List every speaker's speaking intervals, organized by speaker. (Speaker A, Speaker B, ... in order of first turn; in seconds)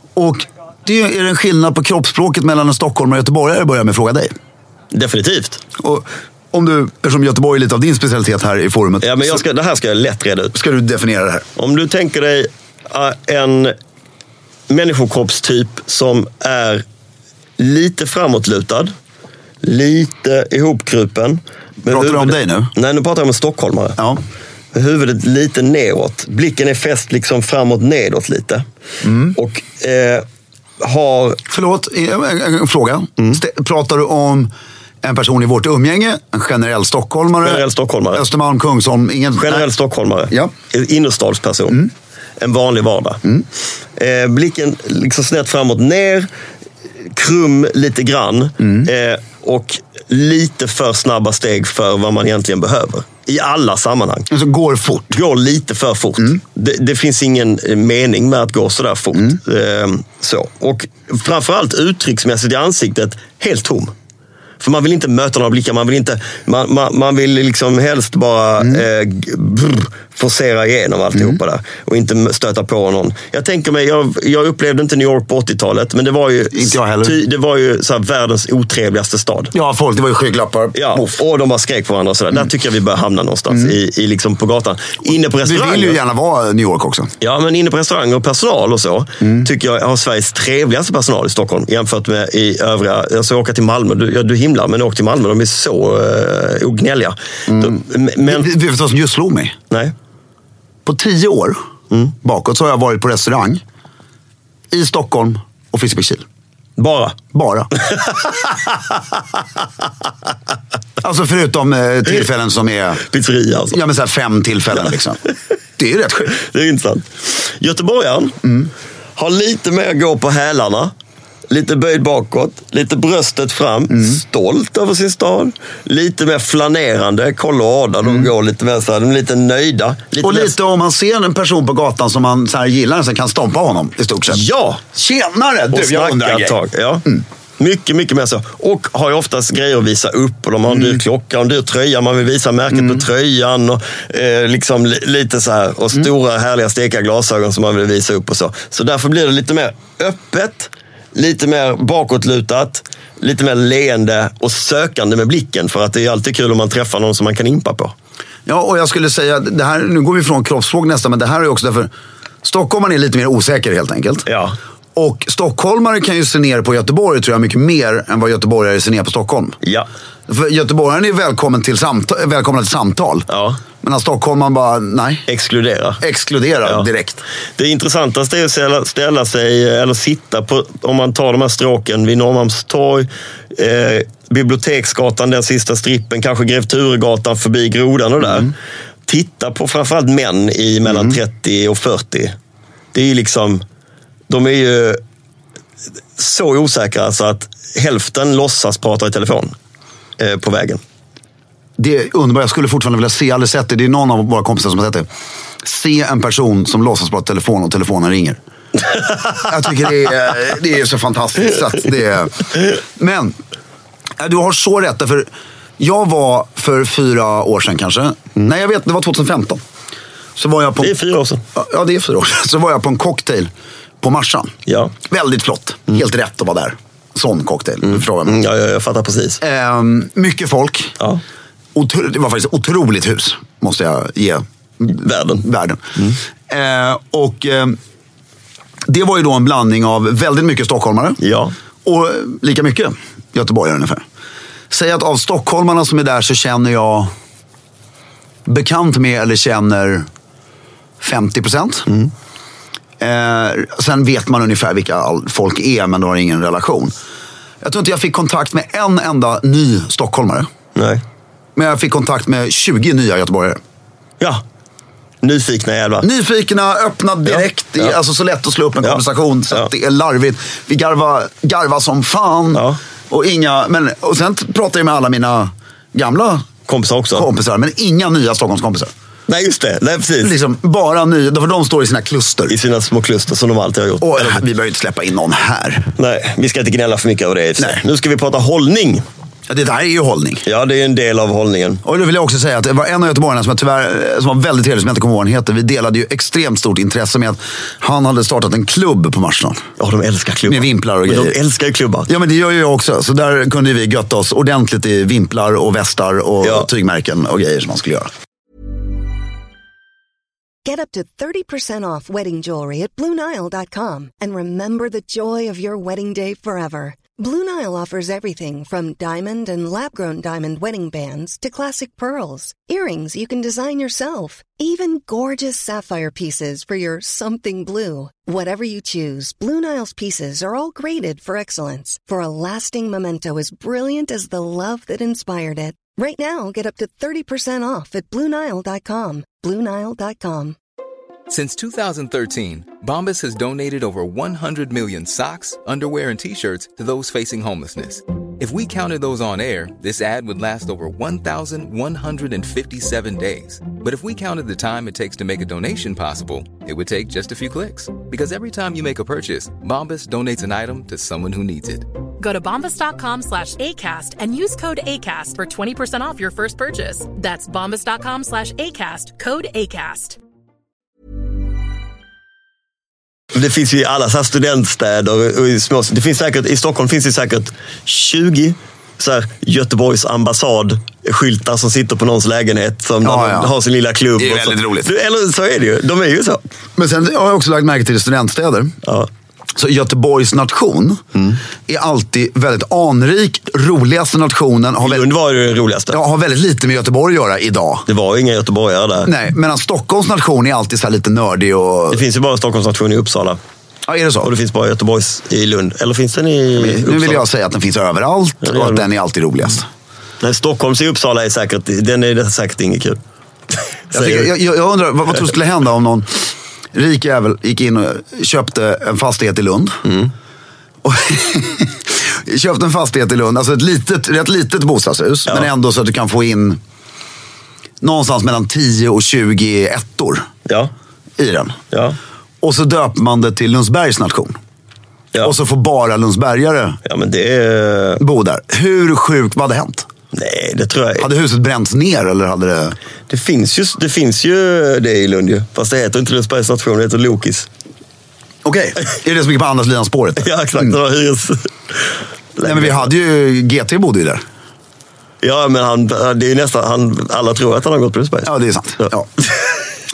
Speaker A: 0.1-4.3, 5.8-9.4, 10.5-11.4, 21.9-22.7, 29.0-29.4, 31.5-34.5, 35.0-39.6, 54.3-55.1, 76.5-77.2, 79.5-81.2, 85.4-87.1, 97.5-99.5, 100.8-101.6, 102.2-103.6, 104.7-106.2, 107.3-107.7, 111.0-113.0, 113.7-115.2, 115.8-116.3, 118.4-118.7, 123.9-124.2, 130.2-134.4, 134.9-137.2, 140.7-141.0, 142.7-143.0, 158.5-161.9, 162.4-164.2, 164.9-169.6, 170.3-173.3, 173.8-175.2, 176.0-177.2, 190.9-191.2, 201.8-205.1, 205.6-208.4, 209.3-213.4, 214.2-219.6, 220.4-220.9, 221.5-223.5, 224.0-224.5, 225.0-228.4, 229.4-230.9, 231.7-235.8, 236.5-237.8, 238.9-241.2, 241.8-244.0, 244.7-247.1, 248.4-250.1, 251.0-251.9, 253.0-256.9, 257.6-260.5, 261.6-263.6, 266.0-276.5, 277.1-278.9, 280.2-282.5, 284.0-285.9, 289.5-290.4, 291.8-299.6, 300.5-301.4, 302.1-308.1, 383.0-383.5, 384.2-384.9, 386.8-388.8, 389.6-391.0, 391.7-395.1, 395.9-397.8, 399.1-402.0, 403.9-404.3, 406.6-409.7, 413.9-419.8, 420.8-426.6, 427.8-430.3, 431.2-431.6, 432.4-434.4, 435.2-436.8, 438.0-439.9, 441.0-442.8, 448.4-450.8, 452.4-454.2, 458.2-459.1
Speaker B: 4.9-5.6, 9.0-10.6, 11.6-13.7, 14.7-16.8, 17.6-18.9, 19.6-24.0, 24.7-28.6, 29.3-30.2, 30.8-31.4, 37.4-38.2, 39.4-41.8, 42.4-43.2, 44.0-46.3, 47.1-54.3, 55.1-63.9, 64.6-79.5, 80.7-86.0, 87.2-98.5, 106.8-107.2, 107.7-108.9, 113.0-113.8, 116.3-118.4, 119.2-120.9, 121.5-130.5, 134.3-134.8, 135.7-137.0, 137.6-157.9, 164.3-164.6, 173.3-173.6, 175.3-176.0, 177.6-188.5, 189.1-192.3, 192.9-193.6, 194.3-195.0, 196.2-199.5, 200.2-200.8, 220.8-221.4, 224.7-224.9, 227.9-229.4, 234.9-235.4, 241.2-241.5, 260.7-261.0, 265.2-266.1, 267.3-267.9, 268.8-269.7, 276.7-277.3, 279.3-280.3, 282.5-284.4, 286.0-289.0, 290.4-291.8, 299.8-302.1, 373.3-386.4, 394.8-396.0, 397.9-399.1, 401.9-403.4, 404.2-407.2, 408.4-408.8, 410.2-413.0, 413.9-414.3, 419.8-420.1, 431.7-432.0, 436.8-438.0, 440.1-441.1, 443.1-447.5, 450.2-451.5, 452.4-452.9, 455.2-458.3
Speaker C: 310.6-340.6
Speaker D: 341.3-361.9
Speaker E: 362.2-370.2